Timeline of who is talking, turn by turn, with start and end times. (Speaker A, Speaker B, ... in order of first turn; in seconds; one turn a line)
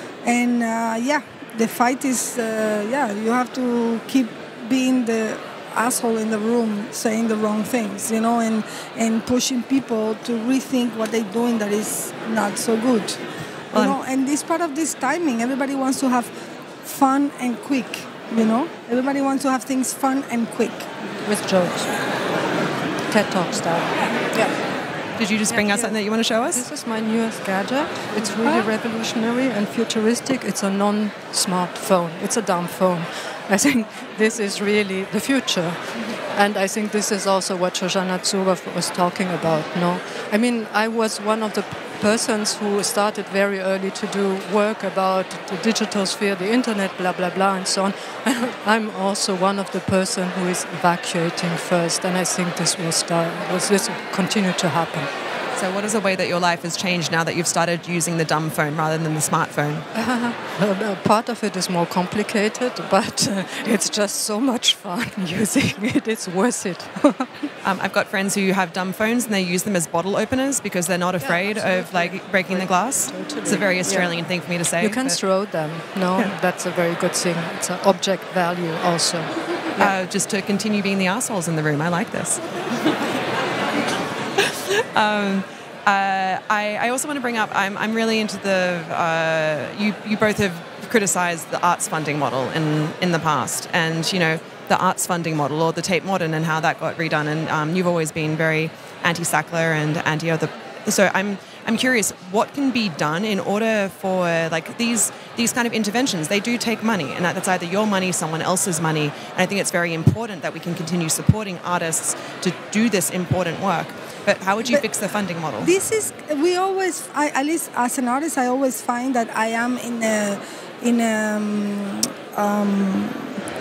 Speaker A: 0.2-13.2
Speaker B: 13.7-14.0
Speaker A: 13.7-16.3
Speaker A: 16.8-20.9
Speaker C: 21.2-21.9
Speaker C: 23.1-24.6
Speaker B: 25.2-26.6
Speaker C: 25.5-26.0
Speaker C: 26.5-55.1
Speaker B: 55.5-59.9
Speaker C: 59.9-67.5
Speaker B: 67.6-75.2
Speaker C: 71.2-74.1
Speaker C: 74.8-79.9
Speaker B: 79.8-82.5
Speaker B: 84.4-115.7
Speaker A: 115.6-123.4